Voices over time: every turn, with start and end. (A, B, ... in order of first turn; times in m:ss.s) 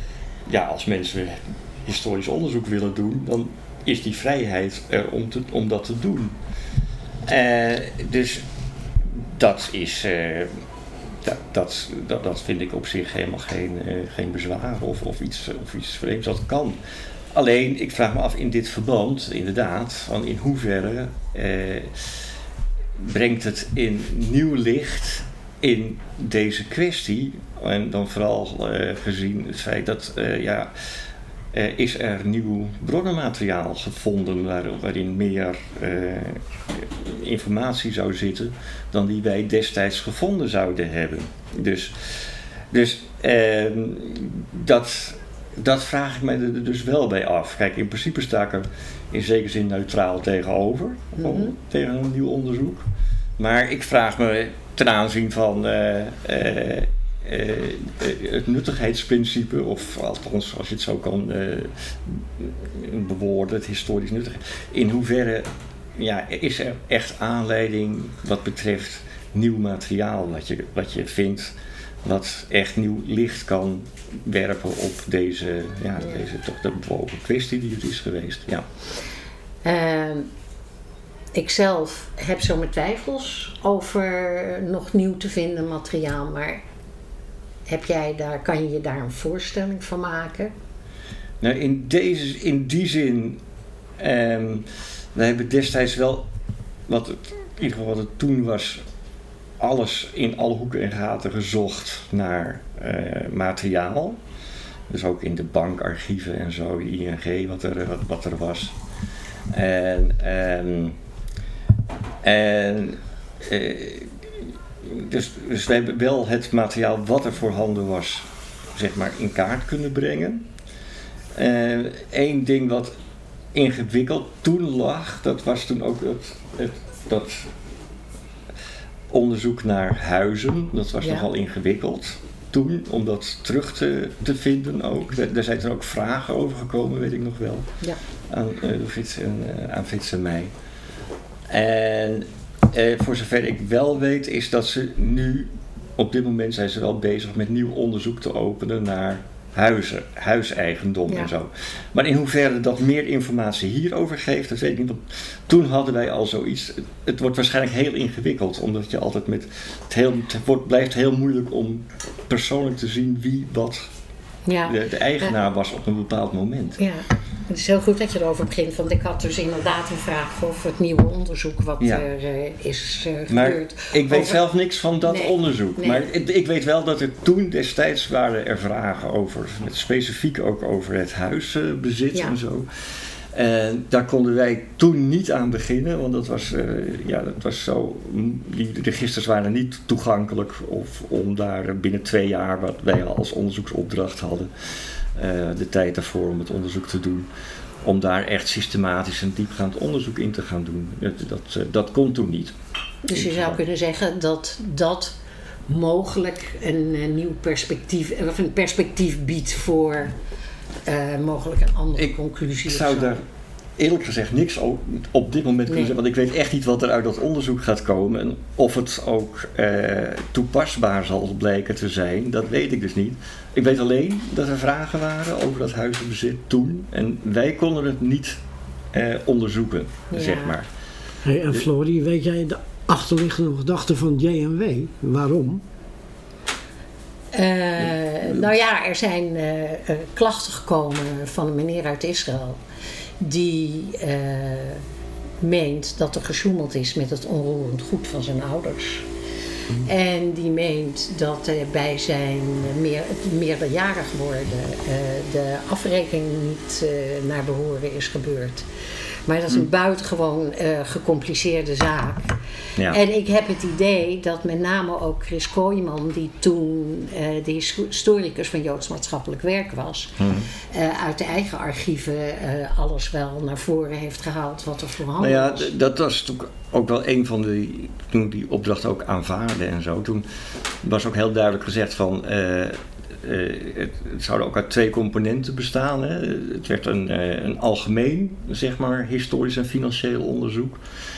0:00.5-0:06.3 A
0:07.3-0:08.4 A
0:09.0-0:10.5 A
0:11.2-0:16.8 A
0:17.3-0:22.2 A
0:23.0-0:30.7 A
0:31.5-0:52.9 A
0:51.2-0:51.5 B
0:53.4-1:18.7 A
1:19.6-1:20.3 B
1:21.3-1:26.6 B
1:27.7-1:30.5 B
1:31.4-1:33.4 A
1:34.0-1:36.3 A
1:36.9-1:38.8 A
1:39.6-1:44.2 A
1:44.9-1:48.8 A
1:49.5-1:51.0 A
1:52.2-1:54.1 A
1:54.8-2:00.5 A
2:01.4-2:03.0 A
2:03.5-2:07.5 A
2:09.1-2:17.7 A
2:11.0-2:11.3 B
2:18.3-2:20.5 A
2:21.5-2:43.9 A
2:44.5-2:45.3 B
2:44.7-2:46.8 A
2:46.8-2:54.4 B
2:53.3-3:02.7 A
2:55.0-2:56.1 B
3:03.3-3:14.5 A
3:15.2-3:17.3 A
3:17.8-3:22.5 A
3:23.1-3:25.1 B
3:23.1-3:23.6 A
3:25.7-3:30.2 B
3:30.8-3:33.2 B
3:32.6-3:33.2 A
3:33.8-3:48.4 A
3:35.7-3:35.9 B
3:48.9-3:50.7 A
3:50.1-3:50.6 B
3:51.2-3:55.6 C
3:57.3-4:02.6 B
4:03.2-4:04.8 B
4:05.4-4:09.1 B
4:09.8-4:18.7 B
4:19.3-4:22.3 B
4:22.9-4:35.7 B
4:30.2-4:30.5 A
4:35.2-4:40.2 A
4:40.8-4:50.8 A